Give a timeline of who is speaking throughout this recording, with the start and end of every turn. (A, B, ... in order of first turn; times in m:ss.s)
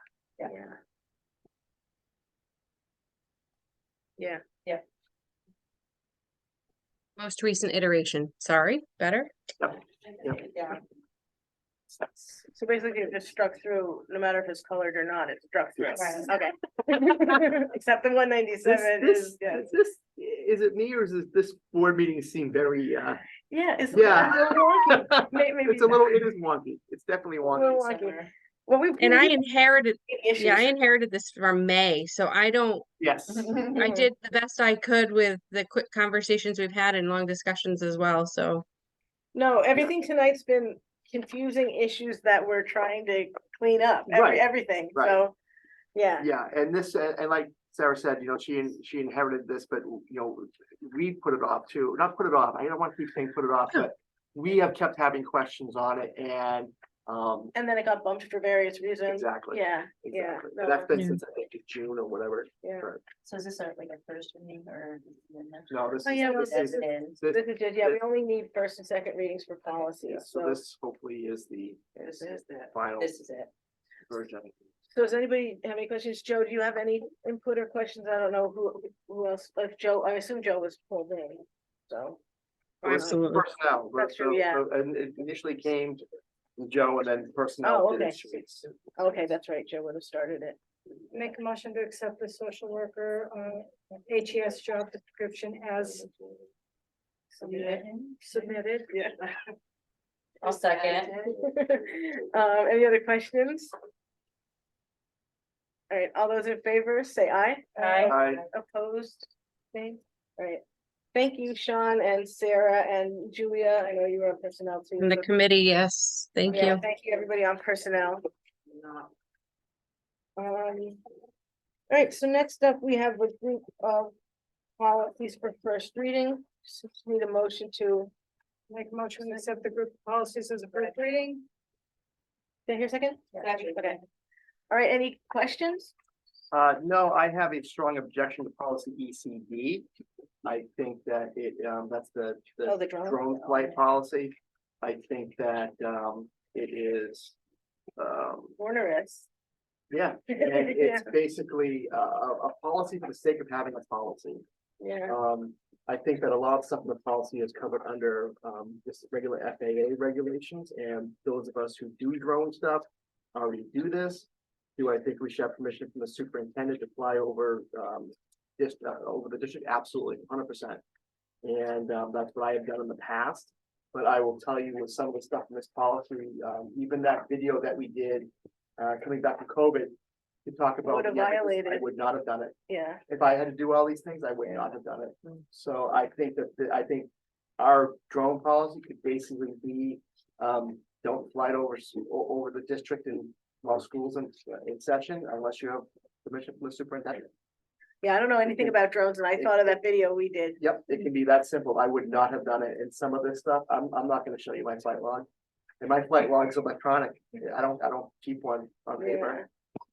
0:04.2-0:04.4 A
0:07.2-0:09.3 B
0:09.6-0:10.4 C
0:10.1-0:10.8 D
0:12.5-0:19.7 A
0:16.0-0:16.3 D
0:18.6-0:23.2 C
0:23.5-0:26.2 A
0:23.9-0:27.8 C
0:27.4-0:29.4 A
0:29.0-0:32.9 B
0:30.1-0:30.7 A
0:33.0-0:33.7 C
0:33.8-0:38.6 B
0:33.8-0:34.1 A
0:39.3-0:45.3 A
0:44.1-0:45.2 C
0:46.0-0:46.3 A
0:46.2-0:57.5 C
0:57.5-1:00.9 A
0:59.1-1:03.0 C
1:03.2-1:07.2 D
1:05.7-1:08.0 C
1:06.0-1:10.6 A
1:10.0-1:13.2 C
1:12.1-1:13.5 D
1:14.1-1:14.5 C
1:14.9-1:22.2 A
1:22.8-1:23.2 A
1:22.8-1:26.0 C
1:22.9-1:23.4 B
1:24.0-1:24.6 A
1:26.6-1:28.7 C
1:27.6-1:28.2 A
1:29.0-1:30.6 A
1:31.1-1:36.1 E
1:37.4-1:38.2 D
1:37.5-1:37.8 A
1:38.2-1:38.9 E
1:38.9-1:39.2 A
1:40.4-1:41.2 D
1:40.5-1:43.7 A
1:45.9-1:50.6 A
1:47.8-1:48.4 D
1:48.1-1:48.4 C
1:51.1-1:55.3 A
1:55.0-1:56.8 B
1:56.5-1:58.2 A
2:00.4-2:01.0 A
2:01.9-2:04.1 A
2:04.8-2:08.1 A
2:08.7-2:11.4 E
2:12.7-2:14.0 A
2:13.4-2:13.7 D
2:14.7-2:15.9 A
2:16.5-2:19.9 C
2:20.4-2:27.4 C
2:22.7-2:23.3 A
2:28.0-2:28.6 C
2:28.6-2:29.3 A
2:29.9-2:34.4 C
2:30.4-2:31.0 A
2:34.8-2:35.2 A
2:35.1-2:50.8 C
2:51.4-2:59.9 C
3:00.5-3:02.5 C
3:00.8-3:01.9 A
3:02.7-3:03.0 A
3:03.1-3:17.3 C
3:18.0-3:20.6 A
3:20.6-3:25.3 C
3:25.8-3:29.4 C
3:29.0-3:29.4 A